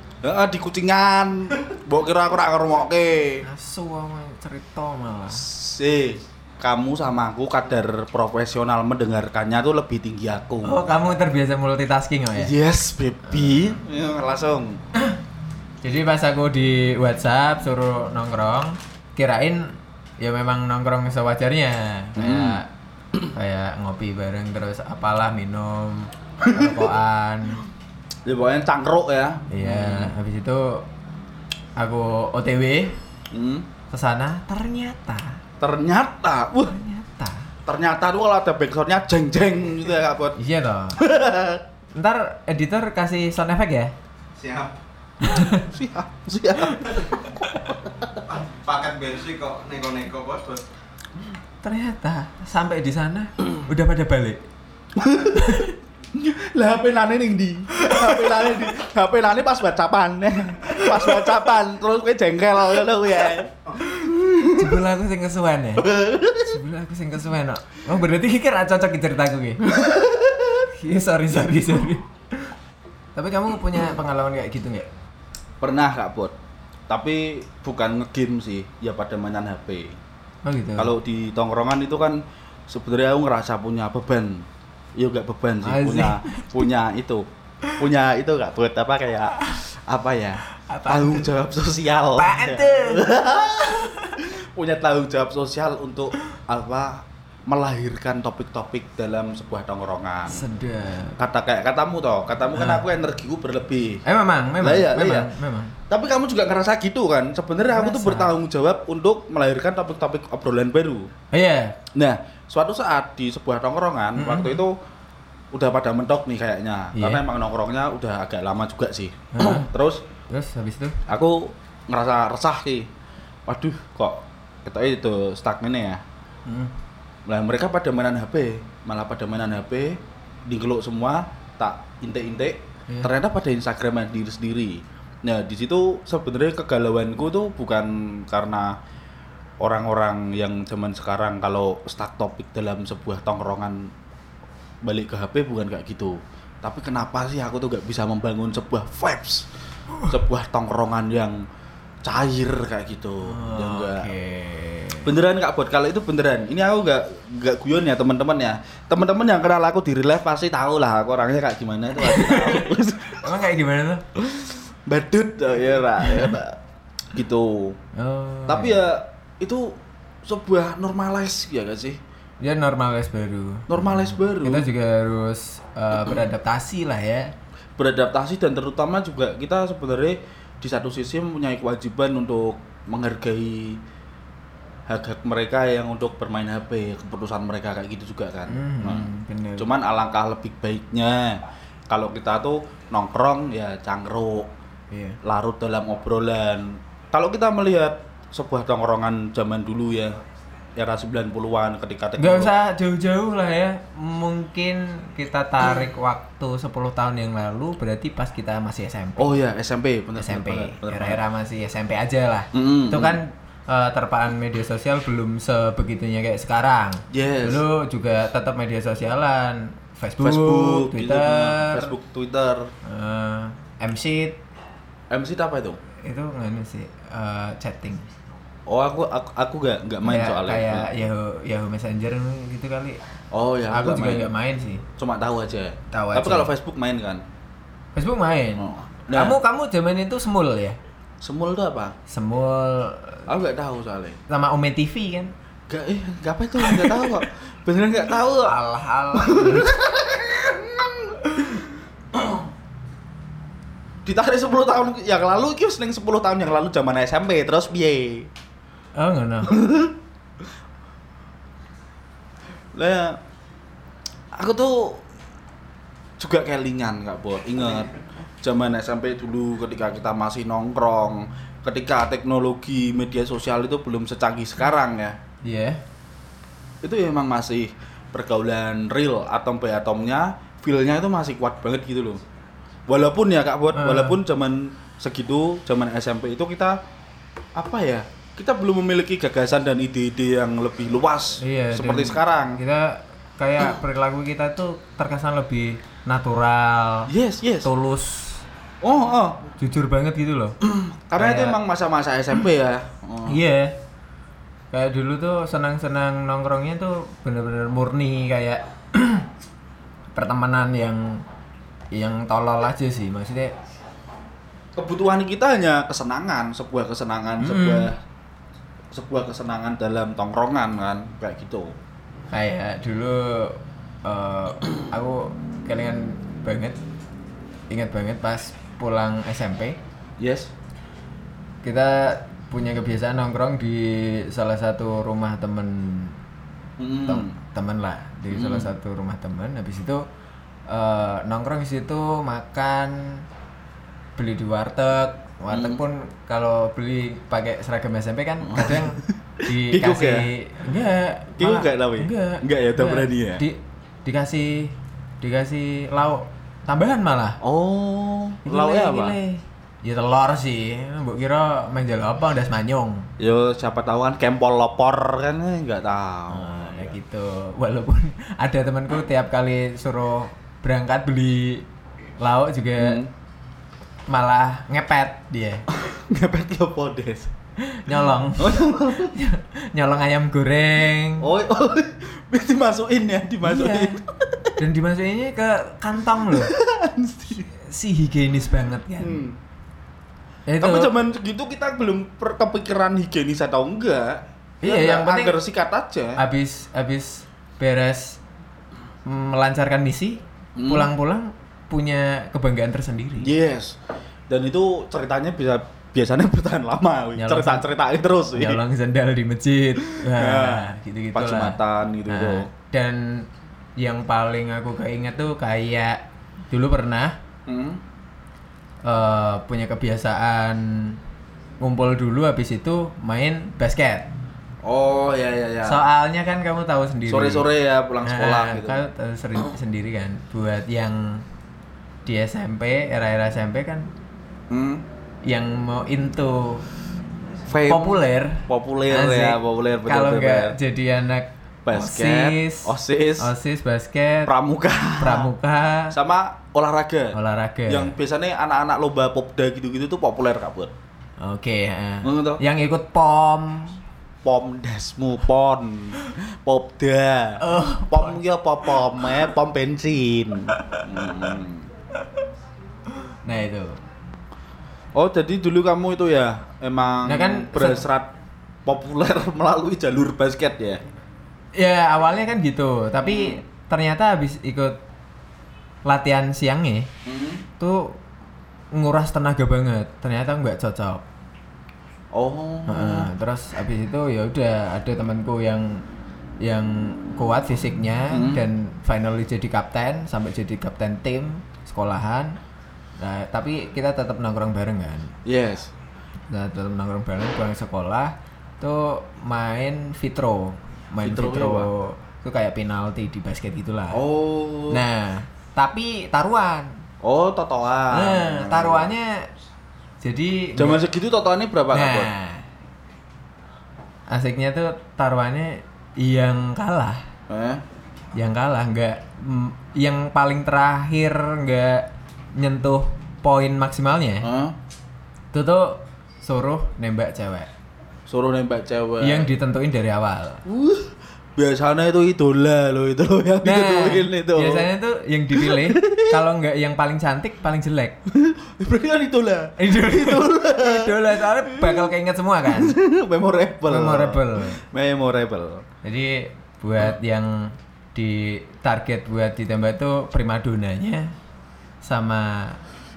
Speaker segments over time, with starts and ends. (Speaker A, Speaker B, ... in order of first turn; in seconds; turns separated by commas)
Speaker A: 0.2-3.4, Speaker B: 3.4-5.5, Speaker A: 5.3-10.8, Speaker B: 10.6-12.5, Speaker A: 12.3-14.8, Speaker B: 15.8-22.7, Speaker A: 22.2-22.6, Speaker B: 23.3-27.6, Speaker A: 26.4-26.9, Speaker A: 28.2-30.1, Speaker B: 29.5-30.9, Speaker B: 31.8-33.0, Speaker A: 33.3-33.7, Speaker B: 33.9-35.4, Speaker A: 35.6-36.7, Speaker B: 36.7-37.5, Speaker A: 37.6-40.4, Speaker B: 40.4-41.0, Speaker A: 41.0-41.6, Speaker B: 41.9-43.9, Speaker C: 44.4-44.8, Speaker B: 45.2-45.7, Speaker A: 45.4-48.2, Speaker C: 48.3-50.6, Speaker B: 51.6-54.4, Speaker A: 55.0-64.8, Speaker B: 55.3-55.7, Speaker B: 58.0-58.2, Speaker B: 64.5-69.8, Speaker A: 65.8-66.6, Speaker A: 69.7-70.6, Speaker B: 70.7-72.5, Speaker B: 73.1-74.9, Speaker A: 75.6-76.3, Speaker A: 76.9-80.0, Speaker B: 80.4-80.9, Speaker A: 80.8-87.2, Speaker B: 85.6-86.6, Speaker A: 87.8-100.4, Speaker B: 90.7-91.3, Speaker B: 92.1-93.1, Speaker B: 93.6-94.2, Speaker B: 100.3-101.2, Speaker A: 101.2-104.0, Speaker B: 102.5-102.8, Speaker B: 104.0-105.8, Speaker A: 104.6-105.3, Speaker A: 105.9-111.1, Speaker B: 107.7-108.3, Speaker B: 111.3-111.8, Speaker A: 111.9-114.8, Speaker B: 114.2-114.6, Speaker A: 115.5-120.0, Speaker B: 116.9-117.2, Speaker B: 119.3-119.7, Speaker B: 120.3-121.0, Speaker A: 121.1-122.9, Speaker A: 123.5-126.0, Speaker B: 126.5-126.7, Speaker A: 127.2-138.8, Speaker A: 139.6-143.9, Speaker A: 144.8-149.5, Speaker A: 150.1-151.4, Speaker A: 152.0-154.1, Speaker B: 153.2-155.1, Speaker A: 155.0-163.3, Speaker B: 162.0-164.0, Speaker A: 164.2-166.6, Speaker B: 166.1-166.3, Speaker A: 167.1-167.8, Speaker B: 167.9-168.8, Speaker A: 168.5-172.0, Speaker B: 172.4-177.3, Speaker A: 173.7-174.7, Speaker A: 177.8-183.8, Speaker A: 184.9-194.5, Speaker B: 188.5-189.7, Speaker B: 194.9-195.2, Speaker A: 195.2-200.2, Speaker A: 200.8-202.5, Speaker B: 202.2-209.4, Speaker A: 209.2-211.2, Speaker B: 210.2-221.9, Speaker A: 212.5-213.2, Speaker A: 217.1-217.6, Speaker A: 220.2-222.7, Speaker B: 222.8-224.4, Speaker A: 225.1-225.8, Speaker B: 226.0-228.1, Speaker A: 228.7-231.0, Speaker B: 230.0-233.0, Speaker A: 233.3-234.3, Speaker B: 233.7-234.8, Speaker A: 235.0-237.2, Speaker B: 235.9-236.5, Speaker B: 237.9-240.8, Speaker A: 238.6-239.4, Speaker A: 241.2-241.9, Speaker B: 242.1-243.2, Speaker A: 243.3-244.2, Speaker B: 244.3-245.3, Speaker A: 245.7-248.6, Speaker B: 246.6-247.2, Speaker B: 248.4-249.7, Speaker A: 249.1-251.6, Speaker A: 254.0-258.3, Speaker B: 258.9-259.6, Speaker A: 259.4-259.9, Speaker A: 262.7-263.2, Speaker A: 264.3-265.0, Speaker A: 266.2-275.2, Speaker B: 275.4-275.8, Speaker A: 276.8-282.2, Speaker A: 282.9-286.8, Speaker B: 283.7-284.2, Speaker A: 287.5-292.6, Speaker B: 291.4-297.1, Speaker A: 297.1-297.7, Speaker B: 297.6-298.4, Speaker A: 298.8-299.4, Speaker B: 299.6-300.6, Speaker A: 300.6-303.4, Speaker B: 301.1-301.6, Speaker B: 303.3-303.8, Speaker B: 304.7-309.3, Speaker B: 310.1-311.2, Speaker B: 311.9-313.5, Speaker A: 314.8-318.0, Speaker B: 317.4-317.9, Speaker A: 318.9-321.7, Speaker B: 322.3-326.8, Speaker B: 327.7-329.8, Speaker A: 330.2-330.5, Speaker B: 331.6-336.2, Speaker A: 336.8-337.3, Speaker B: 337.1-340.0, Speaker A: 338.3-338.7, Speaker B: 340.7-343.2, Speaker B: 344.2-357.4, Speaker A: 345.5-345.8, Speaker A: 348.4-350.3, Speaker A: 351.4-353.4, Speaker A: 357.4-359.1, Speaker B: 358.4-363.1, Speaker A: 363.2-367.0, Speaker B: 366.3-371.6, Speaker B: 372.2-373.0, Speaker A: 372.8-373.1, Speaker B: 374.1-375.6, Speaker A: 375.7-377.3, Speaker B: 377.6-381.3, Speaker A: 378.4-379.1, Speaker A: 381.2-384.6, Speaker B: 383.4-384.0, Speaker B: 384.6-386.5, Speaker A: 386.3-387.5, Speaker B: 387.5-389.2, Speaker A: 389.0-389.4, Speaker B: 390.5-390.9, Speaker A: 390.6-396.2, Speaker B: 394.6-395.4, Speaker B: 396.2-398.2, Speaker B: 399.1-403.3, Speaker A: 400.6-400.9, Speaker A: 403.2-403.8, Speaker A: 404.3-408.6, Speaker B: 407.2-407.6, Speaker B: 408.3-417.2, Speaker A: 409.9-412.5, Speaker A: 417.5-417.8, Speaker B: 418.8-421.0, Speaker B: 421.6-424.1, Speaker A: 424.6-425.8, Speaker B: 425.6-427.4, Speaker A: 427.1-428.8, Speaker B: 428.0-431.2, Speaker B: 432.1-433.9, Speaker A: 434.5-434.8, Speaker B: 435.2-436.6, Speaker A: 437.5-440.6, Speaker B: 437.6-444.3, Speaker A: 441.6-443.3, Speaker A: 444.2-445.3, Speaker B: 445.0-445.9, Speaker A: 445.9-447.1, Speaker B: 447.1-447.9, Speaker A: 447.7-450.7, Speaker B: 451.2-453.8, Speaker A: 452.0-452.4, Speaker A: 454.2-461.7, Speaker B: 457.4-458.2, Speaker B: 463.2-463.8, Speaker A: 464.9-468.1, Speaker B: 467.0-467.8, Speaker A: 468.6-470.8, Speaker B: 471.5-474.8, Speaker A: 473.0-473.4, Speaker B: 475.8-476.9, Speaker A: 477.0-477.4, Speaker B: 477.6-478.0, Speaker B: 478.7-481.0, Speaker A: 482.1-483.1, Speaker B: 482.7-485.8, Speaker B: 486.4-492.4, Speaker A: 488.1-488.4, Speaker B: 493.0-495.1, Speaker A: 495.2-495.7, Speaker B: 496.3-504.0, Speaker A: 501.0-501.7, Speaker A: 503.9-504.8, Speaker B: 504.7-506.8, Speaker A: 507.0-508.9, Speaker B: 507.9-509.3, Speaker B: 510.0-510.8, Speaker A: 510.6-512.1, Speaker B: 511.7-512.4, Speaker B: 514.1-517.0, Speaker A: 517.3-517.6, Speaker B: 518.1-524.3, Speaker A: 524.2-524.5, Speaker B: 525.3-527.5, Speaker A: 528.1-529.3, Speaker B: 529.0-530.4, Speaker A: 530.5-534.7, Speaker B: 533.4-538.0, Speaker A: 535.3-536.2, Speaker A: 538.1-541.9, Speaker B: 539.6-542.7, Speaker A: 542.5-545.6, Speaker B: 543.7-544.6, Speaker B: 545.8-551.1, Speaker B: 551.8-552.6